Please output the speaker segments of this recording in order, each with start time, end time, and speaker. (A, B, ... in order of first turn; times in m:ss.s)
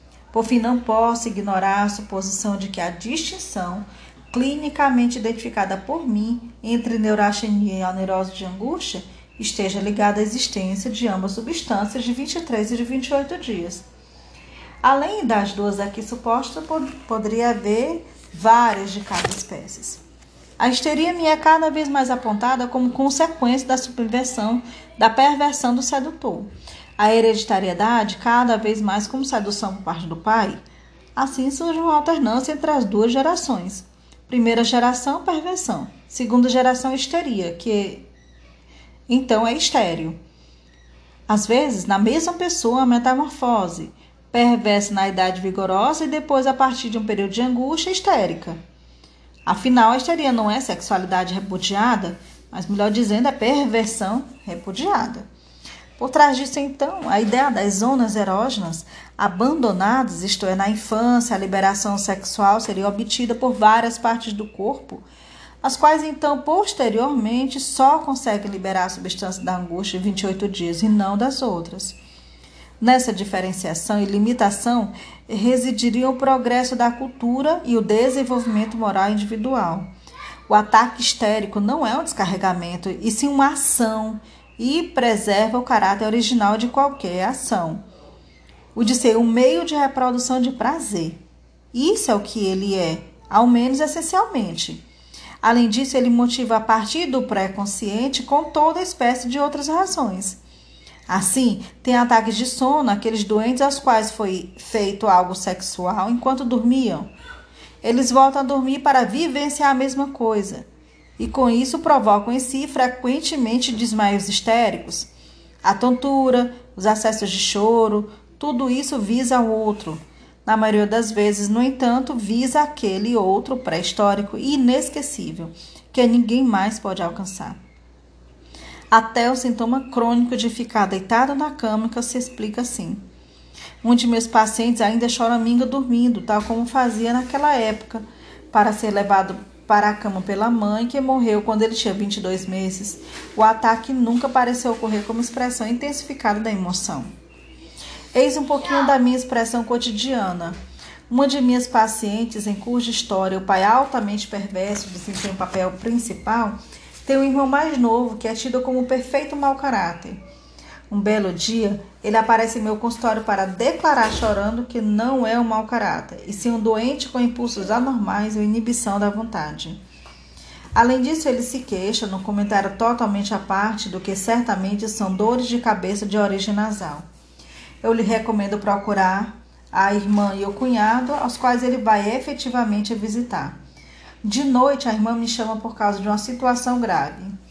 0:00.3-0:13.8 A
0:14.8-0:20.0 A
0:20.6-0:30.6 A
0:31.2-0:38.1 A
0:39.1-0:40.2 A
0:41.3-0:48.6 A
0:49.5-0:55.2 A
0:56.0-1:05.0 A
1:05.6-1:12.0 A
1:12.8-1:19.9 A
1:20.5-1:27.8 A
1:28.7-1:31.2 A
1:31.7-1:34.8 A
1:35.4-1:40.4 A
1:41.1-1:47.1 A
1:47.8-1:50.6 A
1:51.2-1:55.1 A
1:55.6-2:07.6 A
2:08.9-2:13.0 A
2:13.8-2:27.1 A
2:28.1-2:30.6 A
2:31.1-2:40.2 A
2:40.9-2:49.8 A
2:50.7-2:57.0 A
2:57.8-3:03.6 A
3:04.2-3:07.3 A